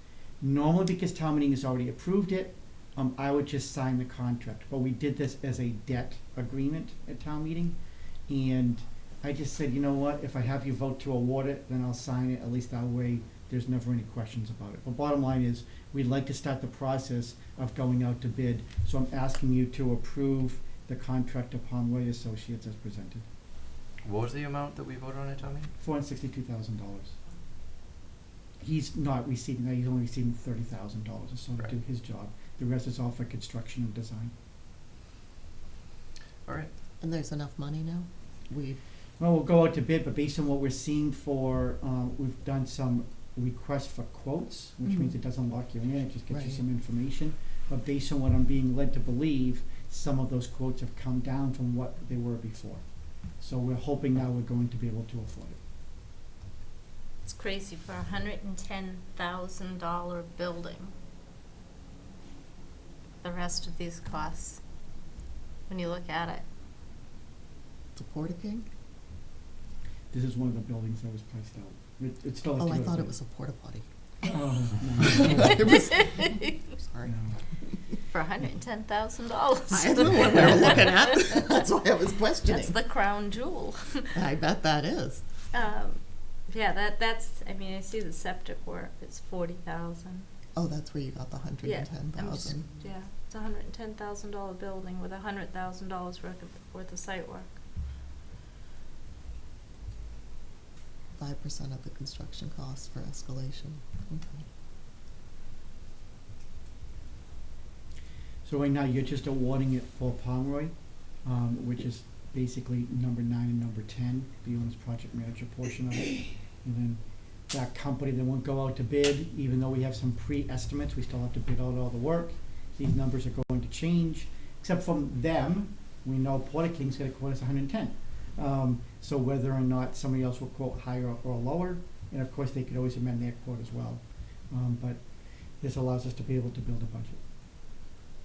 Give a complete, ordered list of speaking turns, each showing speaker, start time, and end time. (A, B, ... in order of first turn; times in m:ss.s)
0:00.4-0:23.2 A
0:24.0-0:25.7 B
0:25.8-0:27.2 A
0:28.6-0:34.3 A
0:36.4-0:36.7 B
0:37.0-0:38.8 C
0:39.2-0:52.8 A
0:44.9-0:45.2 C
0:46.3-0:46.6 C
0:53.4-0:55.6 A
0:57.2-1:00.9 D
1:03.2-1:04.6 D
1:05.7-1:06.4 D
1:08.0-1:08.7 C
1:10.1-1:13.2 A
1:12.6-1:13.8 C
1:14.2-1:15.6 A
1:15.1-1:17.2 C
1:15.7-1:16.6 D
1:17.0-1:17.4 A
1:18.1-1:21.0 D
1:19.7-1:22.8 C
1:22.4-1:24.1 D
1:24.1-1:25.2 C
1:25.5-1:30.3 D
1:30.6-1:32.7 C
1:31.6-1:37.6 D
1:41.2-1:44.4 C
1:48.4-2:15.1 A
2:15.6-2:17.2 A